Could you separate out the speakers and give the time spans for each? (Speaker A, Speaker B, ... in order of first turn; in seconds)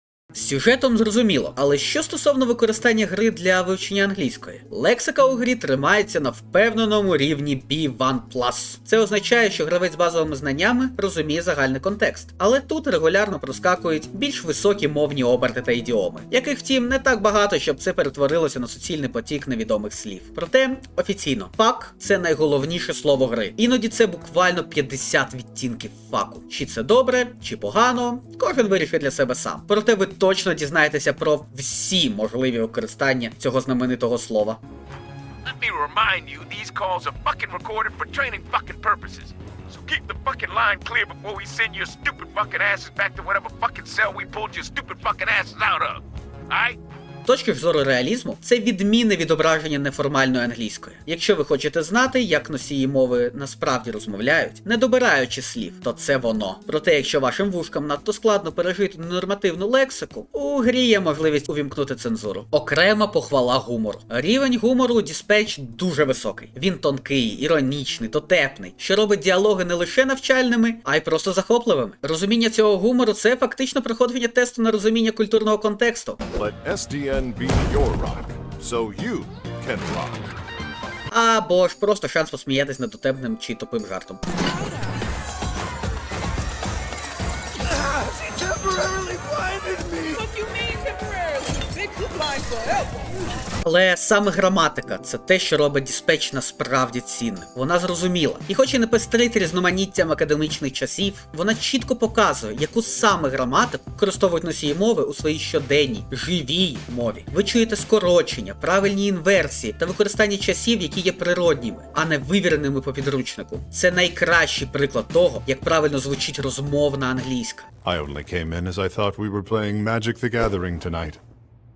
Speaker A: 0.3-34.6, 47.3-76.2, 81.1-84.2, 93.6-117.7
Speaker B: 35.5-46.8, 90.4-91.1
Speaker C: 76.3-80.3, 117.8-121.2